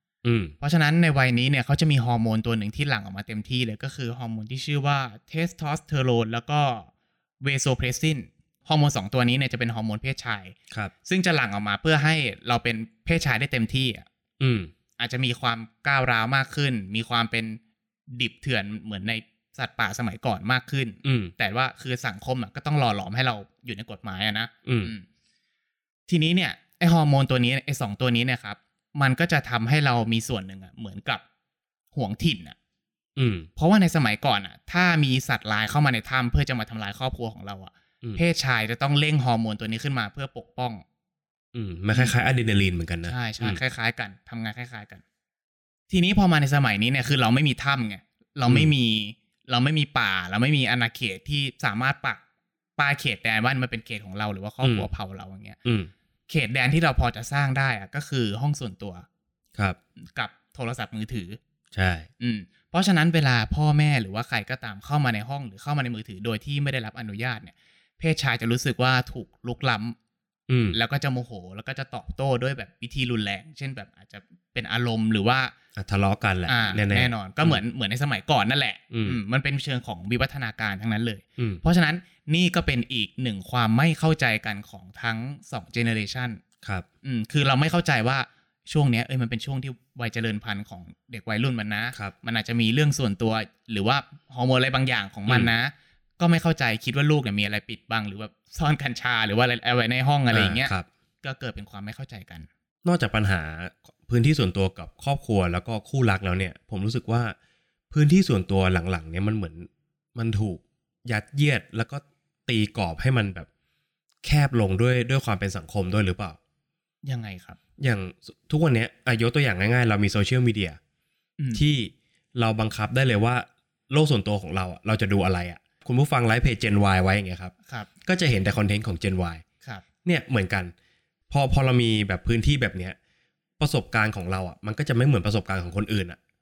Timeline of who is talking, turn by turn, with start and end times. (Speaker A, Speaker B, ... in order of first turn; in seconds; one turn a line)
Speaker A: 0.2-0.5
Speaker B: 0.6-6.9
Speaker B: 7.4-14.1
Speaker A: 14.4-14.7
Speaker B: 15.0-17.6
Speaker B: 18.1-25.1
Speaker A: 21.0-21.3
Speaker A: 24.6-24.9
Speaker B: 26.1-31.2
Speaker B: 31.9-32.5
Speaker A: 33.2-33.5
Speaker B: 33.6-40.8
Speaker A: 41.5-43.6
Speaker B: 43.0-45.0
Speaker B: 45.9-52.2
Speaker B: 52.8-55.6
Speaker A: 54.6-54.9
Speaker A: 55.6-55.9
Speaker B: 56.3-59.0
Speaker B: 60.1-61.4
Speaker A: 61.7-62.1
Speaker B: 62.2-70.0
Speaker A: 70.5-70.8
Speaker B: 70.7-75.5
Speaker A: 75.8-77.6
Speaker B: 76.5-86.4
Speaker A: 78.9-79.2
Speaker B: 87.0-102.5
Speaker A: 100.3-100.8
Speaker A: 102.8-107.3
Speaker A: 107.9-113.5
Speaker A: 114.2-116.4
Speaker B: 117.0-117.6
Speaker A: 117.8-120.8
Speaker B: 121.4-121.6
Speaker A: 121.5-127.5
Speaker A: 128.0-129.4
Speaker A: 130.0-130.7
Speaker A: 131.3-132.9
Speaker A: 133.6-136.2